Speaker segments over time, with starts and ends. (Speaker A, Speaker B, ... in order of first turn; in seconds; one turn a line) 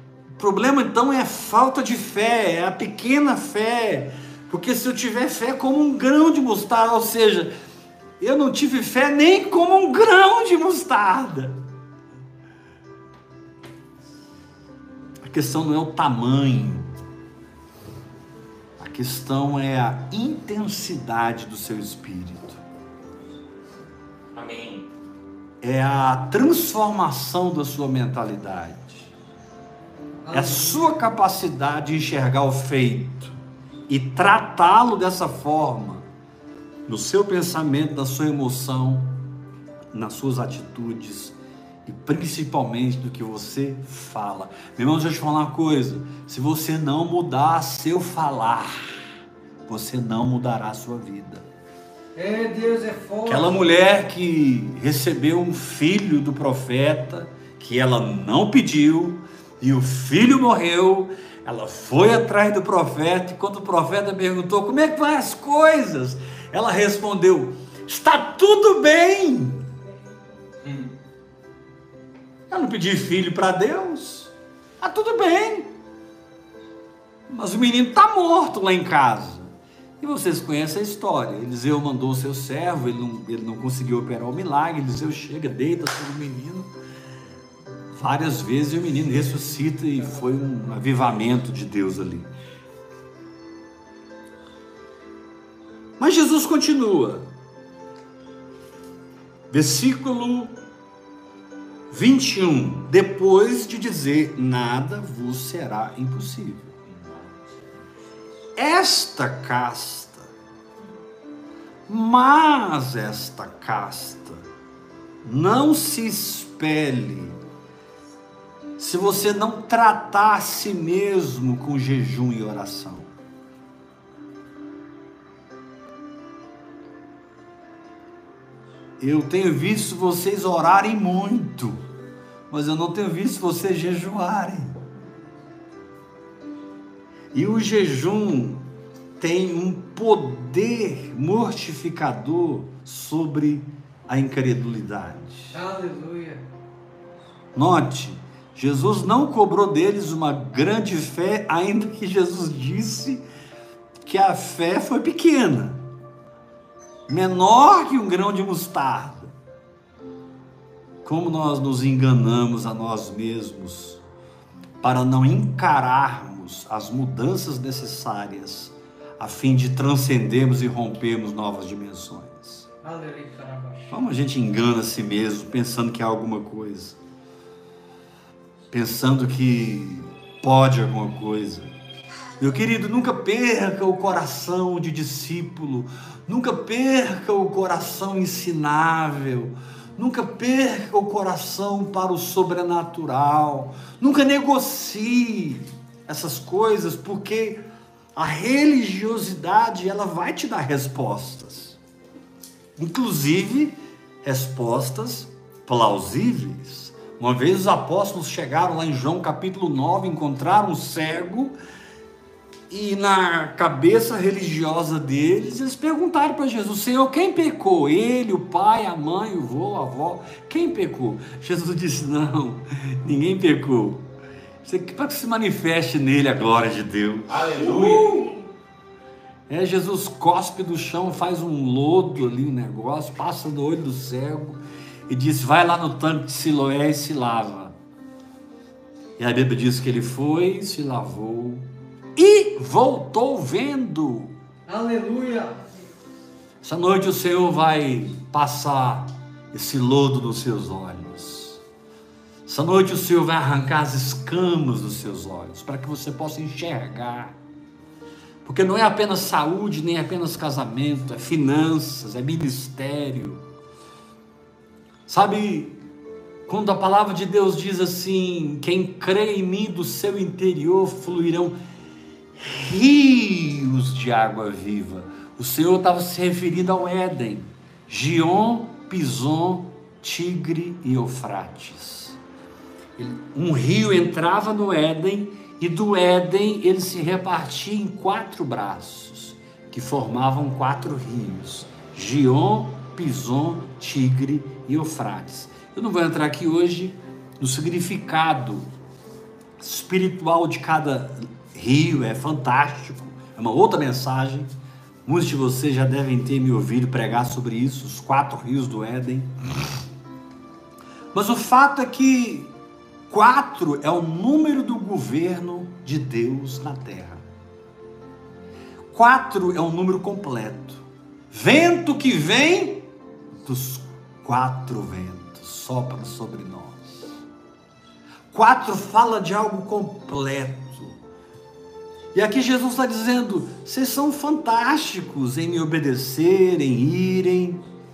Speaker A: 0.4-7.5
Speaker A: 8.2-11.6
Speaker A: 15.2-16.9
Speaker A: 18.8-22.6
Speaker B: 24.3-24.9
Speaker A: 25.6-29.1
Speaker C: 30.2-31.0
Speaker A: 30.3-33.4
Speaker A: 33.9-36.1
Speaker A: 36.9-39.2
Speaker A: 39.9-49.0
Speaker A: 49.7-51.5
Speaker C: 52.2-53.6
Speaker A: 53.3-69.7
Speaker B: 70.6-70.9
Speaker A: 72.5-75.7
Speaker A: 77.3-86.7
Speaker A: 87.9-92.3
Speaker A: 96.0-97.3
Speaker A: 99.5-100.6
Speaker A: 101.9-106.7
Speaker B: 106.9-107.4
Speaker A: 108.6-110.3
Speaker A: 111.9-114.5
Speaker A: 115.2-117.4
Speaker A: 118.8-123.1
Speaker A: 129.0-131.8
Speaker A: 132.5-134.8
Speaker A: 137.3-138.7
Speaker A: 139.2-145.5
Speaker C: 145.5-146.4
Speaker A: 147.6-153.2
Speaker A: 154.1-155.8
Speaker A: 157.1-159.3
Speaker A: 161.0-164.0
Speaker A: 164.8-172.7
Speaker C: 172.8-173.9
Speaker A: 173.9-177.0
Speaker A: 178.7-181.7
Speaker A: 182.4-197.6
Speaker A: 198.2-201.8
Speaker A: 202.8-211.6
Speaker A: 212.7-224.1
Speaker A: 224.6-228.4
Speaker B: 227.3-228.2
Speaker A: 229.5-237.8
Speaker A: 239.2-244.3
Speaker C: 244.7-245.6
Speaker A: 246.6-251.6
Speaker A: 252.5-257.4
Speaker A: 258.4-263.4
Speaker A: 265.1-265.8
Speaker A: 266.5-271.6
Speaker A: 272.4-282.2
Speaker A: 283.0-298.7
Speaker A: 299.6-304.5
Speaker A: 305.1-309.3
Speaker A: 311.1-312.5
Speaker A: 313.1-317.2
Speaker A: 318.9-322.9
Speaker A: 323.4-327.2
Speaker A: 328.3-331.0
Speaker A: 332.1-337.6